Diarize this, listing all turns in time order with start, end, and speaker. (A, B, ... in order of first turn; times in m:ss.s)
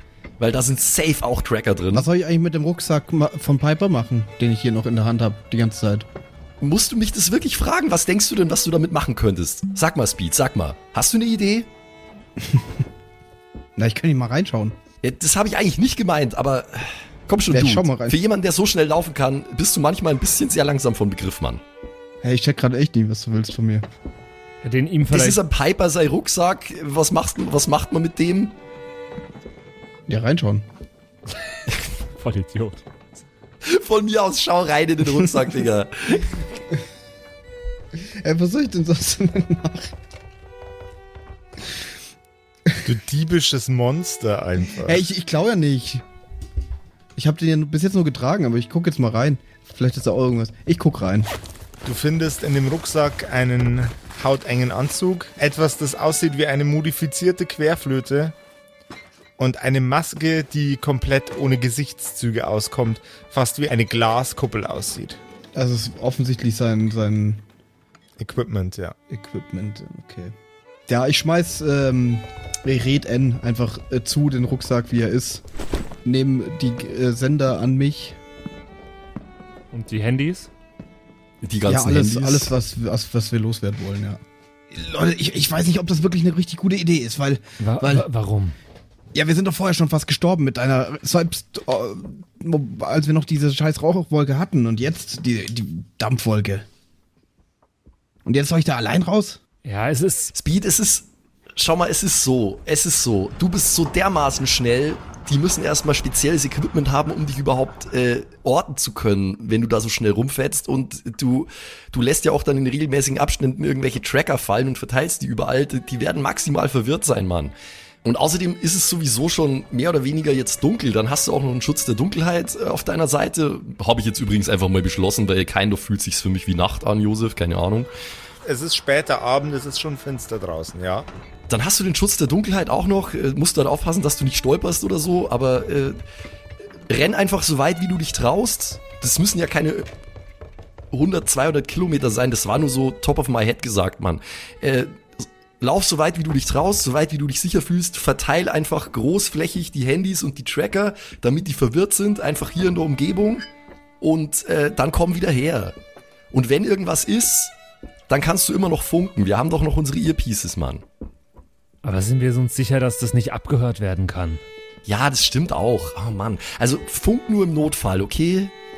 0:00.4-0:02.1 A
0:01.9-0:06.1 B
0:06.6-0:11.7 A
0:12.4-0:12.7 B
0:13.8-0:14.8 B
0:15.0-0:21.6 A
0:17.5-0:18.2 B
0:22.2-0:23.9 B
0:24.6-0:25.4 C
0:25.1-0:28.6 A
0:30.1-0:30.7 B
0:32.1-0:32.8 C
0:33.6-0:36.4 A
0:38.0-0:40.0 B
0:42.8-0:45.0 D
0:44.7-0:46.0 B
0:47.2-0:51.3 B
0:51.8-0:58.4 D
0:59.4-1:05.2 D
1:05.5-1:07.4 B
1:08.2-1:09.0 D
1:09.1-1:10.3 B
1:10.9-1:15.4 B
1:16.0-1:18.2 B
1:19.7-1:20.5 C
1:21.4-1:22.5 A
1:21.7-1:24.2 B
1:24.7-1:28.1 B
1:27.6-1:28.6 C
1:29.1-1:36.6 B
1:38.3-1:39.4 B
1:39.6-1:40.3 C
1:40.3-1:57.5 A
1:58.0-2:07.9 A
2:08.4-2:11.1 D
2:11.5-2:16.0 A
2:16.9-2:19.9 A
2:20.9-2:33.5 A
2:34.0-2:35.8 A
2:36.3-2:37.5 A
2:38.1-2:40.8 A
2:41.8-2:44.4 C
2:44.8-2:48.5 A